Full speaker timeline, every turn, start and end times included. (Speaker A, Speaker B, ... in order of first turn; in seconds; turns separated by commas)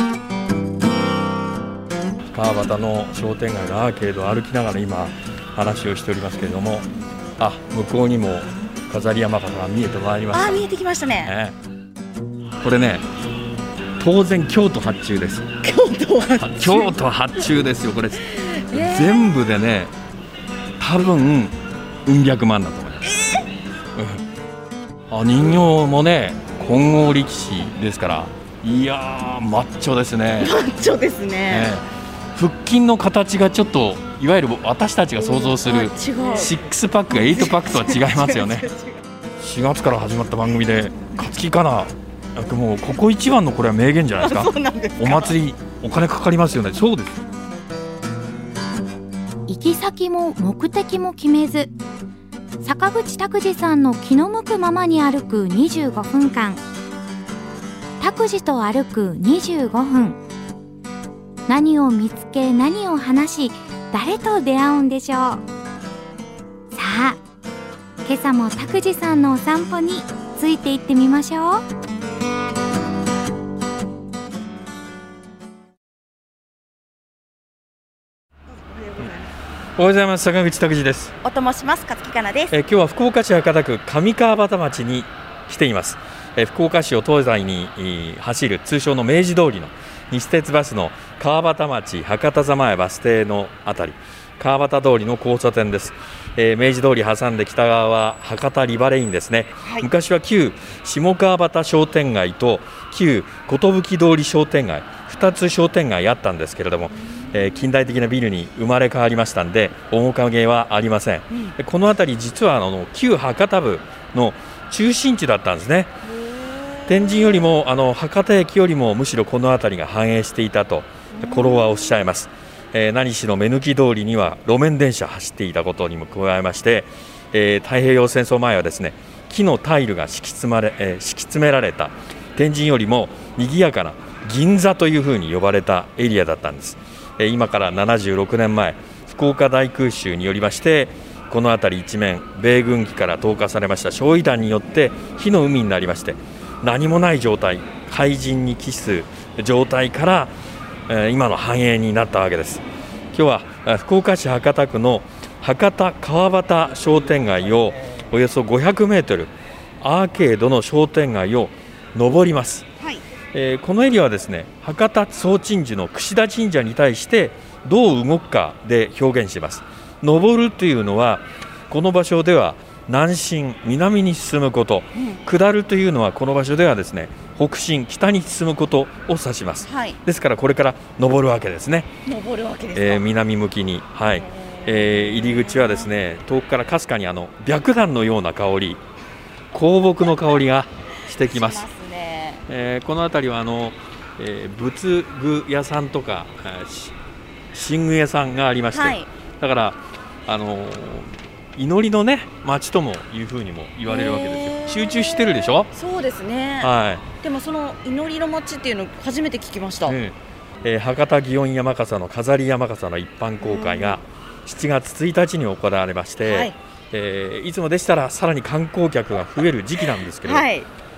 Speaker A: 2.3-10.6, Speaker B: 10.3-11.3, Speaker A: 11.2-11.5, Speaker A: 12.6-13.0, Speaker A: 14.0-15.5, Speaker B: 15.6-16.9, Speaker A: 16.4-19.9, Speaker B: 18.3-19.3, Speaker A: 20.8-23.1, Speaker B: 23.0-23.5, Speaker A: 23.9-24.2, Speaker A: 25.1-30.5, Speaker B: 30.4-31.7, Speaker A: 31.5-38.7, Speaker B: 35.4-36.6, Speaker B: 37.3-39.0, Speaker A: 39.4-47.2, Speaker B: 44.2-45.3, Speaker C: 49.5-51.7, Speaker C: 52.6-56.6, Speaker C: 58.0-60.2, Speaker C: 61.5-65.4, Speaker C: 66.7-67.2, Speaker C: 68.0-71.6, Speaker B: 78.8-79.1, Speaker A: 79.8-81.2, Speaker B: 81.2-82.5, Speaker A: 82.5-116.0, Speaker B: 99.6-99.9, Speaker B: 106.9-107.4, Speaker B: 116.0-117.5, Speaker A: 116.8-150.3, Speaker B: 121.1-121.8, Speaker A: 150.9-162.7, Speaker A: 163.3-181.9, Speaker B: 174.9-175.2, Speaker B: 179.6-180.0, Speaker B: 182.0-183.1, Speaker A: 182.7-188.8, Speaker B: 184.1-185.9, Speaker A: 189.5-191.7, Speaker B: 191.1-192.4, Speaker A: 192.5-196.9, Speaker A: 197.5-205.7, Speaker B: 198.7-199.1, Speaker B: 203.8-210.0, Speaker A: 206.6-207.1, Speaker A: 209.8-220.5, Speaker B: 213.4-214.0, Speaker B: 216.2-216.5, Speaker B: 220.2-220.7